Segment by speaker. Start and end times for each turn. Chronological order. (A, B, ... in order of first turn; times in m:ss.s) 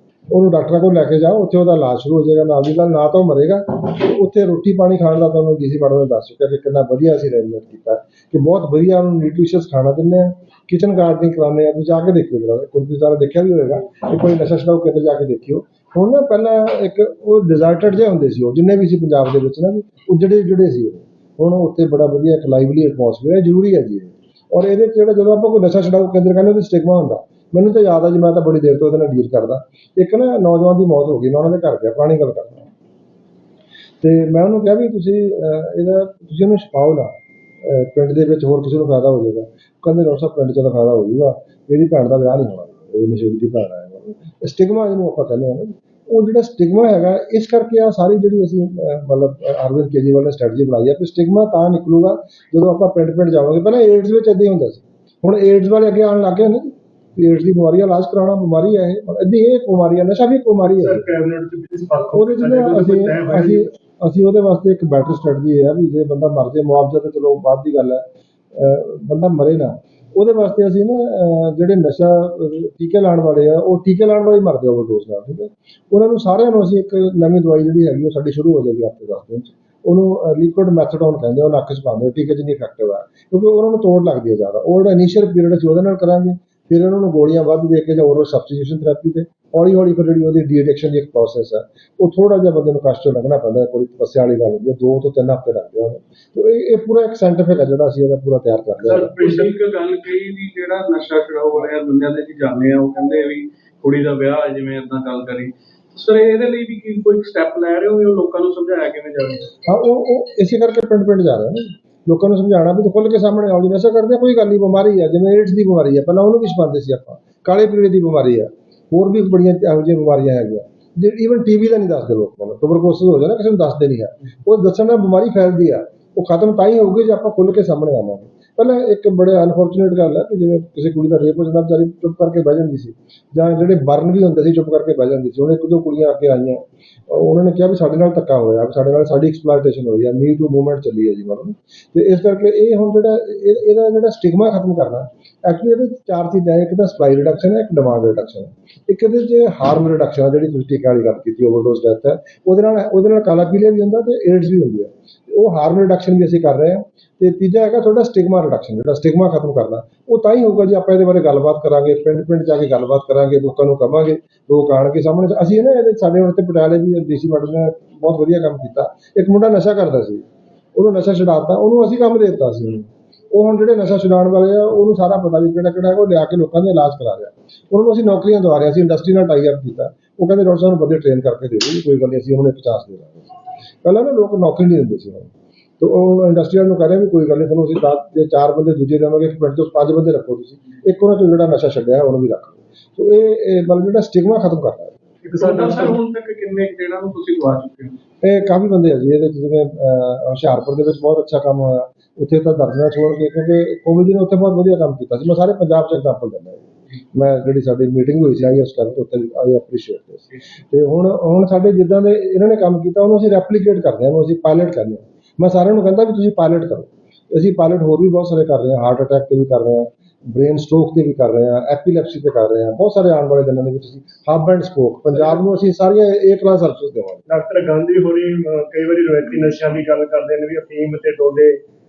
0:00.3-0:32.7 A
0:34.0-0:37.1 A
0:37.6-1:01.0 A
1:00.8-1:03.7 B
1:02.1-1:39.1 A
1:38.8-1:39.5 B
1:38.9-1:49.5 C
1:49.6-2:50.2 A
2:50.7-3:15.0 A
3:15.3-3:16.0 B
3:15.3-3:18.0 C
3:18.2-3:47.2 A
3:47.3-3:51.6 B